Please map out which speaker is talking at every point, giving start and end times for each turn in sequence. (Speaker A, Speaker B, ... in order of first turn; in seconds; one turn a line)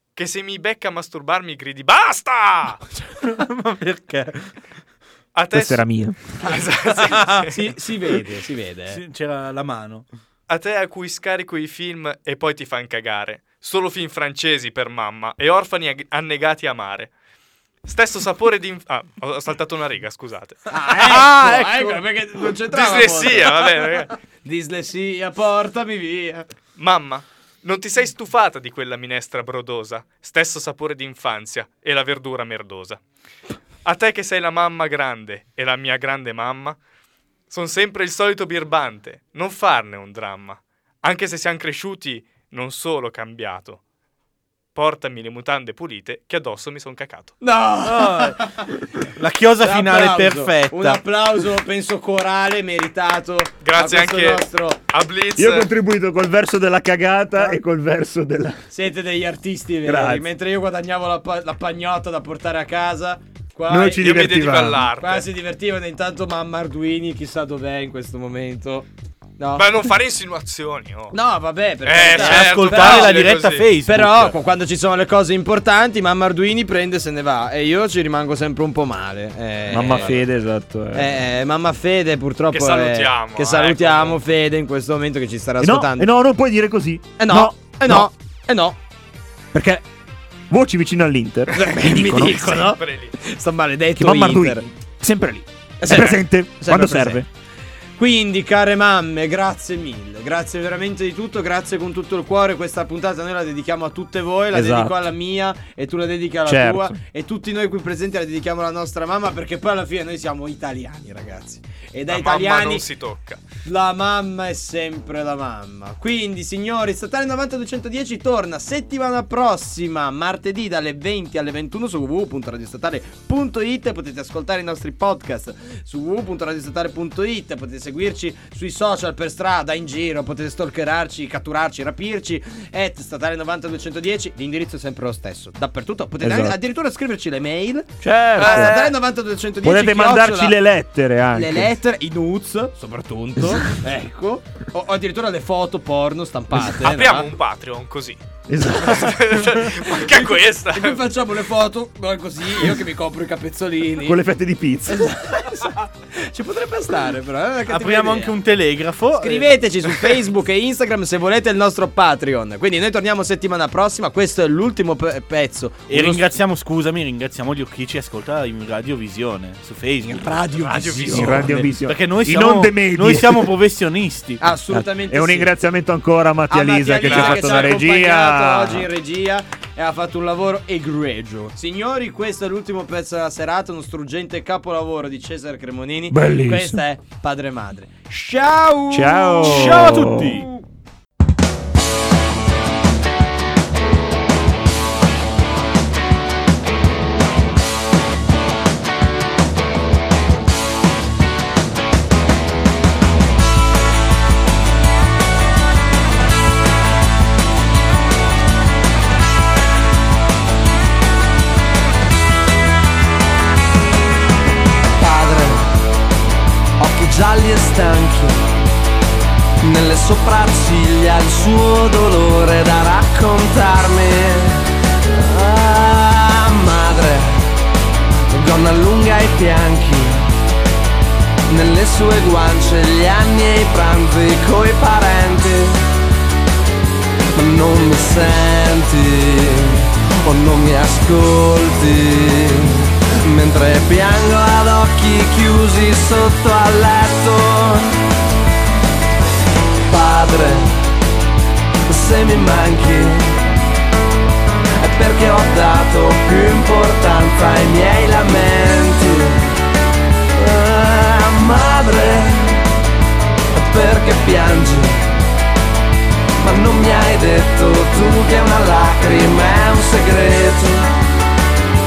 Speaker A: 0.2-2.8
Speaker B: 3.1-4.5
Speaker A: 5.3-5.8
Speaker C: 5.5-6.2
Speaker A: 6.4-7.5
Speaker B: 7.1-7.5
Speaker D: 7.3-9.0
Speaker B: 8.9-10.1
Speaker A: 10.5-17.1
Speaker A: 17.9-24.1
Speaker D: 20.7-26.5
Speaker A: 26.8-33.0
Speaker A: 33.9-36.8
Speaker A: 37.5-43.8
Speaker A: 44.8-47.4
Speaker D: 47.4-48.7
Speaker B: 47.9-48.5
Speaker B: 49.2-51.0
Speaker D: 49.6-54.8
Speaker A: 53.6-55.7
Speaker C: 55.4-58.6
Speaker D: 58.7-64.0
Speaker C: 59.9-60.3
Speaker C: 63.7-64.9
Speaker A: 64.0-65.3
Speaker D: 65.0-68.9
Speaker D: 69.4-69.7
Speaker A: 69.5-71.2
Speaker D: 71.1-73.2
Speaker A: 71.8-73.7
Speaker B: 72.0-74.4
Speaker D: 73.8-80.2
Speaker C: 79.7-81.2
Speaker D: 80.9-86.1
Speaker A: 82.5-84.2
Speaker C: 85.6-88.1
Speaker D: 87.2-88.8
Speaker C: 89.5-89.8
Speaker C: 90.5-92.8
Speaker D: 91.5-94.7
Speaker A: 92.8-93.2
Speaker C: 94.0-97.3
Speaker D: 95.8-97.2
Speaker D: 98.0-112.8
Speaker C: 104.5-105.1
Speaker C: 106.5-107.0
Speaker A: 112.1-113.4
Speaker D: 113.7-140.6
Speaker C: 136.2-136.6
Speaker C: 138.0-138.9
Speaker A: 138.4-138.9
Speaker C: 139.6-141.7
Speaker D: 141.3-147.3
Speaker A: 146.6-148.2
Speaker C: 148.5-149.4
Speaker A: 148.8-151.0
Speaker D: 149.8-154.2
Speaker C: 154.0-155.2
Speaker D: 154.9-158.3
Speaker B: 157.7-160.2
Speaker D: 159.2-166.3
Speaker B: 165.9-174.4
Speaker D: 170.0-171.7
Speaker A: 170.7-171.3
Speaker C: 171.1-173.5
Speaker D: 174.4-175.5
Speaker C: 174.7-178.9
Speaker D: 176.5-190.6
Speaker A: 177.0-177.8
Speaker C: 186.1-186.8
Speaker C: 188.9-190.4
Speaker B: 189.4-190.5
Speaker E: 215.0-215.8
Speaker E: 216.8-218.5
Speaker E: 219.6-227.6
Speaker E: 228.3-230.3
Speaker E: 231.5-235.9
Speaker E: 237.3-248.0
Speaker E: 249.9-250.9
Speaker E: 251.9-253.5
Speaker E: 254.8-259.6
Speaker E: 260.3-262.6
Speaker E: 263.5-265.2
Speaker E: 266.4-270.9